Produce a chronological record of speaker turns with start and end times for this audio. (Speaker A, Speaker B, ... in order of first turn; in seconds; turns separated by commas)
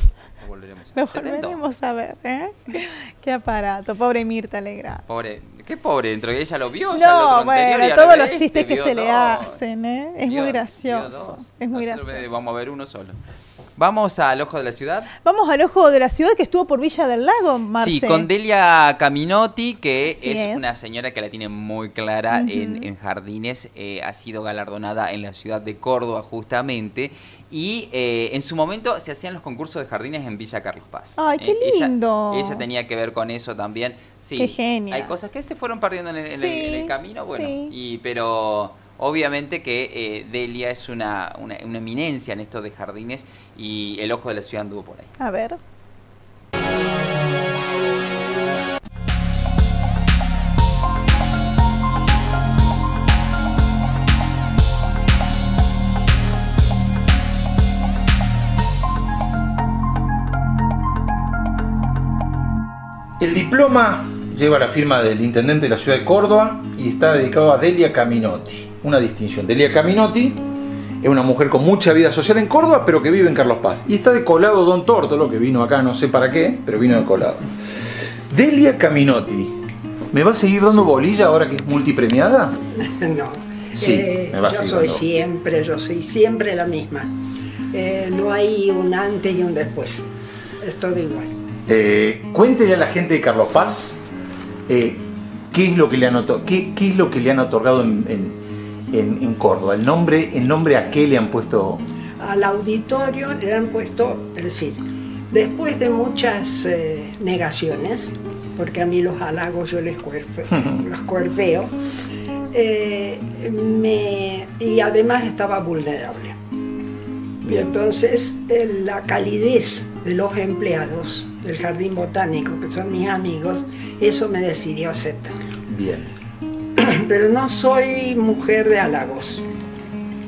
Speaker A: 0.4-1.6, Speaker B: 0.9-5.0, Speaker A: 5.0-9.6, Speaker B: 6.9-12.4, Speaker A: 10.2-13.2, Speaker A: 13.8-15.1, Speaker B: 15.2-18.3, Speaker A: 17.8-45.1, Speaker B: 20.1-20.7, Speaker B: 22.3-22.9, Speaker B: 31.2-32.7, Speaker B: 34.4-35.1, Speaker B: 36.3-37.7, Speaker B: 45.2-45.6, Speaker C: 63.2-70.4, Speaker C: 71.0-79.6, Speaker C: 80.1-82.6, Speaker D: 82.8-87.1, Speaker C: 83.8-85.1, Speaker D: 87.7-90.1, Speaker D: 90.6-91.3, Speaker C: 91.7-94.0, Speaker C: 94.7-98.4, Speaker C: 98.9-101.8, Speaker D: 102.2-111.7, Speaker D: 112.5-116.4, Speaker C: 117.4-117.7, Speaker D: 117.4-125.4, Speaker C: 125.7-126.1, Speaker D: 126.8-129.4